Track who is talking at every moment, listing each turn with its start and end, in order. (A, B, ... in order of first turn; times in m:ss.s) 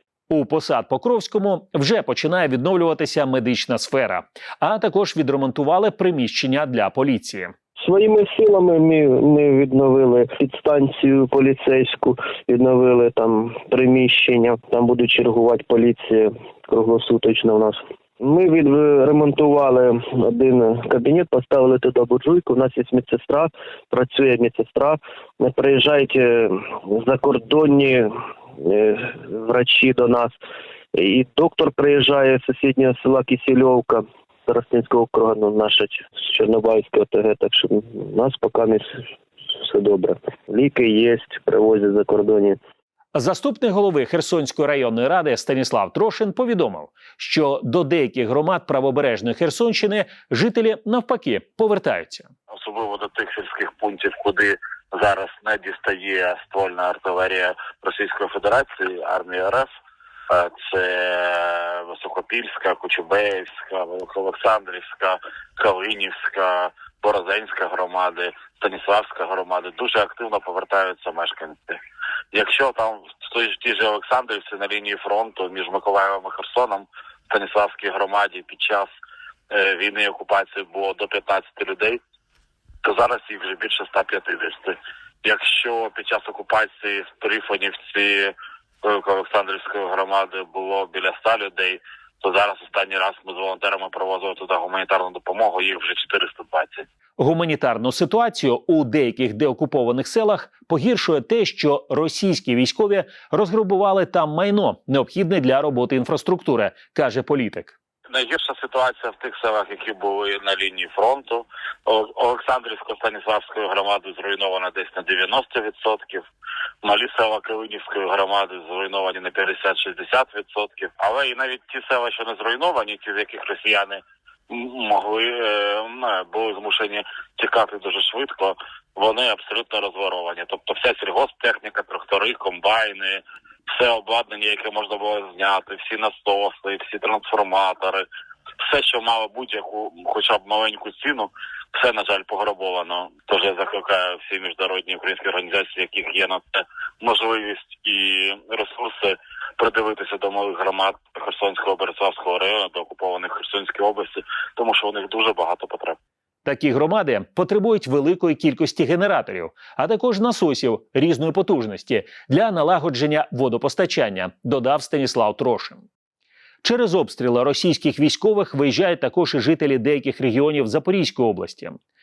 0:00.3-0:07.5 A
0:07.8-0:28.1 B
0:28.6-0:30.3 B
0:30.9-0:38.8 B
0:39.6-0:42.6 B
0:43.1-0:52.3 A
0:52.5-0:59.7 C
1:00.3-1:11.8 C
1:12.3-1:18.9 C
1:19.5-1:22.0 C
1:22.8-1:28.3 C
1:28.8-1:36.8 C
1:37.2-1:47.7 A
1:48.1-1:56.2 C
1:56.8-2:13.2 C
2:13.7-2:18.0 C
2:18.6-2:36.0 C
2:36.4-2:45.8 A
2:46.6-2:51.8 A